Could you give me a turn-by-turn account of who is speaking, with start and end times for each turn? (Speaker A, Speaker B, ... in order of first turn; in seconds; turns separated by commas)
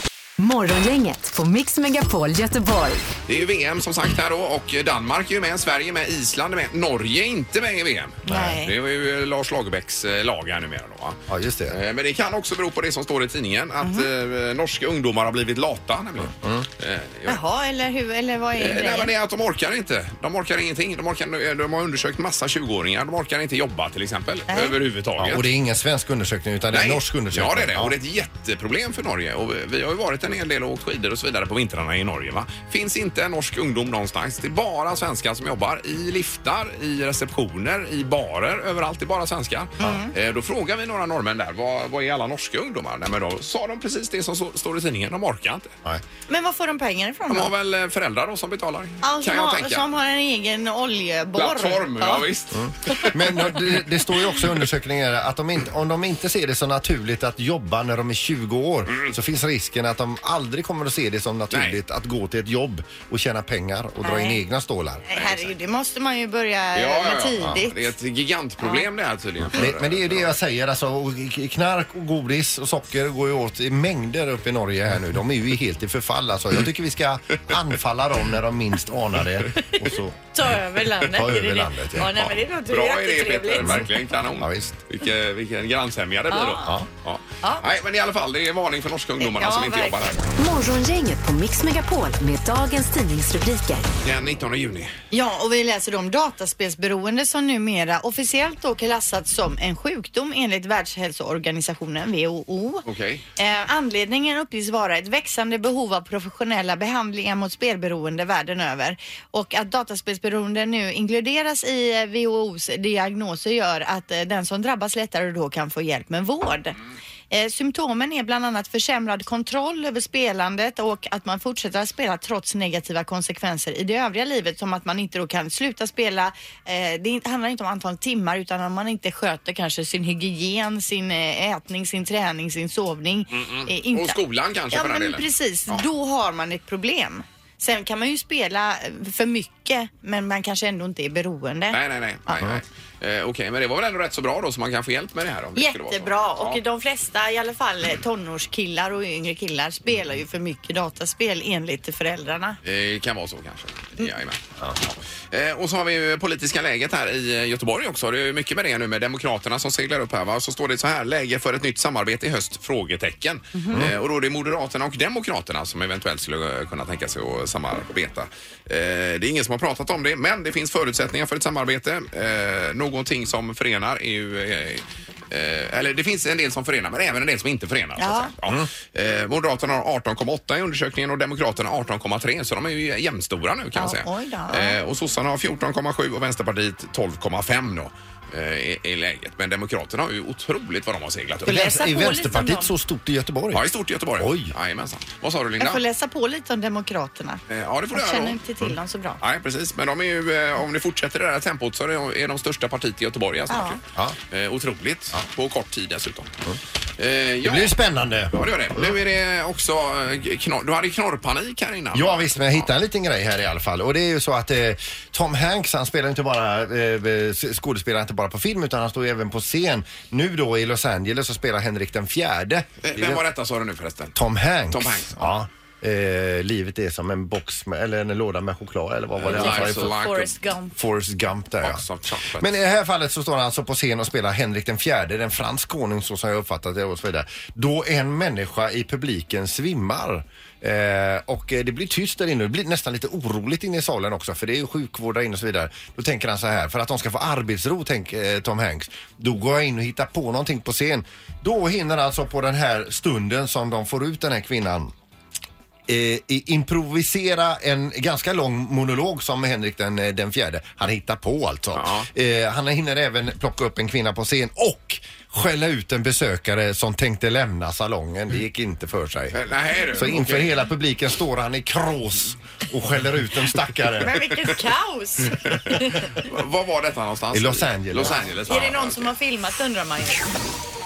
Speaker A: 0.4-3.0, Speaker B: 3.3-17.4, Speaker C: 8.3-8.7, Speaker D: 8.3-8.6, Speaker D: 11.3-11.8, Speaker C: 13.8-14.1, Speaker D: 16.3-16.7, Speaker C: 17.3-19.1, Speaker B: 18.6-25.5, Speaker C: 24.5-24.8, Speaker D: 25.2-28.0, Speaker B: 26.7-45.7, Speaker C: 39.8-40.1, Speaker C: 46.3-47.5, Speaker B: 47.3-49.9, Speaker C: 49.0-52.3, Speaker B: 51.4-53.1, Speaker D: 52.5-65.0, Speaker B: 61.5-61.8, Speaker C: 64.0-64.4, Speaker C: 65.1-67.9, Speaker B: 65.2-65.5, Speaker B: 66.8-70.3, Speaker D: 69.5-80.2, Speaker C: 80.3-83.9, Speaker D: 81.0-82.1, Speaker B: 82.1-90.2, Speaker D: 83.6-84.8, Speaker C: 86.3-86.8, Speaker C: 89.2-90.2, Speaker A: 90.4-93.8, Speaker B: 94.0-94.9, Speaker C: 95.1-102.8, Speaker B: 102.8-103.2, Speaker C: 103.4-116.8, Speaker C: 117.3-134.2, Speaker B: 133.3-135.8, Speaker C: 134.7-141.8, Speaker B: 141.7-146.6, Speaker C: 145.6-152.6, Speaker B: 152.6-154.4, Speaker B: 155.3-191.7, Speaker C: 163.6-163.8, Speaker C: 178.0-178.3, Speaker D: 178.4-178.7, Speaker C: 183.8-184.8, Speaker D: 191.4-193.7, Speaker C: 191.5-192.7, Speaker B: 193.5-195.8, Speaker D: 194.2-194.5, Speaker C: 195.6-197.4, Speaker B: 197.5-198.4, Speaker C: 197.9-199.2, Speaker B: 199.2-206.3, Speaker C: 203.5-203.8, Speaker B: 207.0-207.8, Speaker D: 207.4-208.9, Speaker B: 208.3-212.7, Speaker D: 211.9-223.2, Speaker B: 222.8-224.2, Speaker D: 224.2-230.0, Speaker B: 224.7-225.3, Speaker B: 229.2-230.4, Speaker C: 229.3-230.8, Speaker D: 230.8-231.8, Speaker B: 231.6-232.5, Speaker D: 232.4-254.9, Speaker D: 255.9-269.4, Speaker B: 261.8-262.1, Speaker B: 269.3-270.6, Speaker D: 269.9-274.2, Speaker C: 274.0-276.2, Speaker B: 276.1-279.1, Speaker D: 277.3-278.2, Speaker C: 278.5-280.2